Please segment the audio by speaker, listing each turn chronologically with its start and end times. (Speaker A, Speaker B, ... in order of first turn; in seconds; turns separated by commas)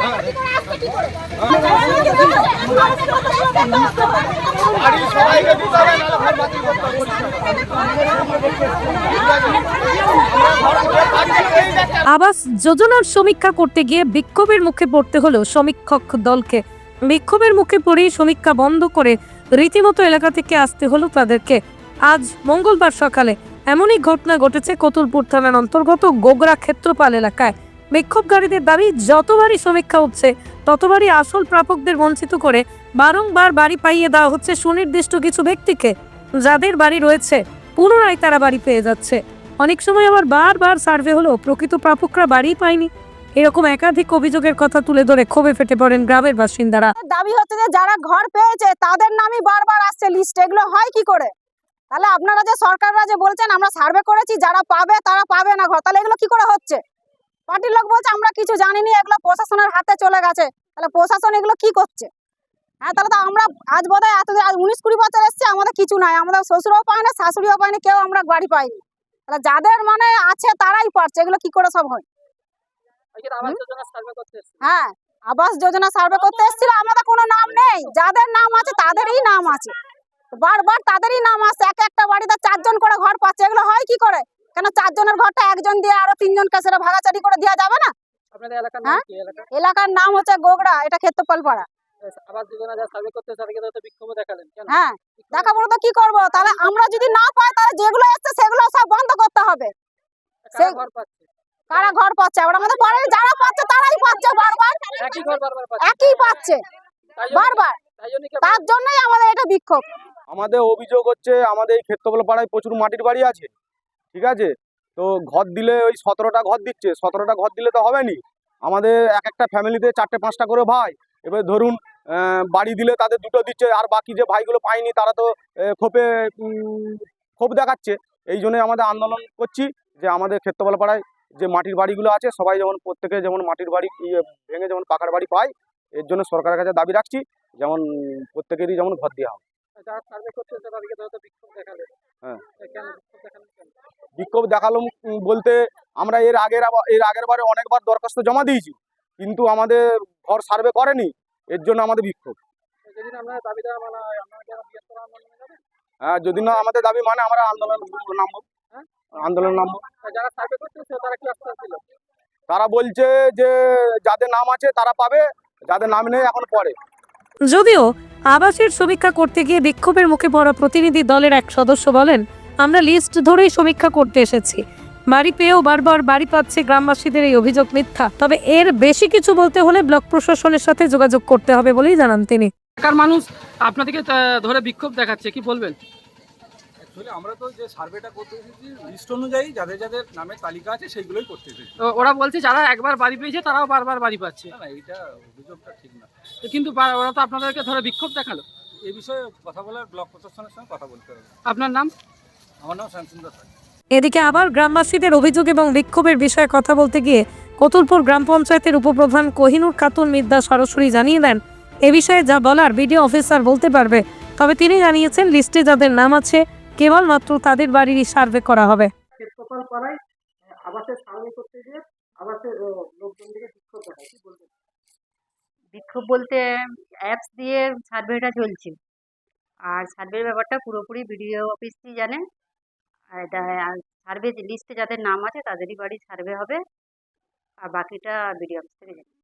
Speaker A: 1.9-2.9, Speaker A: 3.8-4.2, Speaker A: 4.9-9.4, Speaker A: 10.8-11.2, Speaker B: 12.1-35.9, Speaker B: 36.4-46.9, Speaker C: 47.0-51.3, Speaker C: 51.9-56.8, Speaker C: 57.5-62.1, Speaker C: 62.8-72.0, Speaker D: 73.2-74.6, Speaker C: 74.6-79.7, Speaker C: 80.3-87.9, Speaker D: 88.3-89.5, Speaker C: 88.8-91.7, Speaker D: 92.1-95.5, Speaker C: 94.7-99.7, Speaker D: 100.5-101.9, Speaker C: 100.6-100.8, Speaker C: 101.7-105.3, Speaker D: 105.0-106.1, Speaker C: 105.8-106.6, Speaker D: 107.2-108.6, Speaker C: 107.3-107.8, Speaker C: 108.4-109.9, Speaker E: 110.3-113.5, Speaker E: 114.1-139.4, Speaker D: 139.8-141.9, Speaker D: 142.6-143.7, Speaker E: 144.2-152.4, Speaker D: 152.9-155.6, Speaker E: 156.0-158.4, Speaker E: 159.2-159.8, Speaker D: 160.0-161.8, Speaker E: 162.5-166.8, Speaker B: 167.5-182.5, Speaker D: 182.8-185.8, Speaker A: 186.8-191.7, Speaker D: 191.8-194.6, Speaker A: 194.5-196.1, Speaker D: 196.4-198.4, Speaker A: 198.8-201.4, Speaker D: 201.5-201.9, Speaker A: 202.6-203.5, Speaker B: 203.9-218.9, Speaker D: 219.2-220.0, Speaker D: 220.6-224.5, Speaker F: 225.7-228.8, Speaker F: 229.7-232.2, Speaker F: 233.2-236.6, Speaker F: 237.7-239.1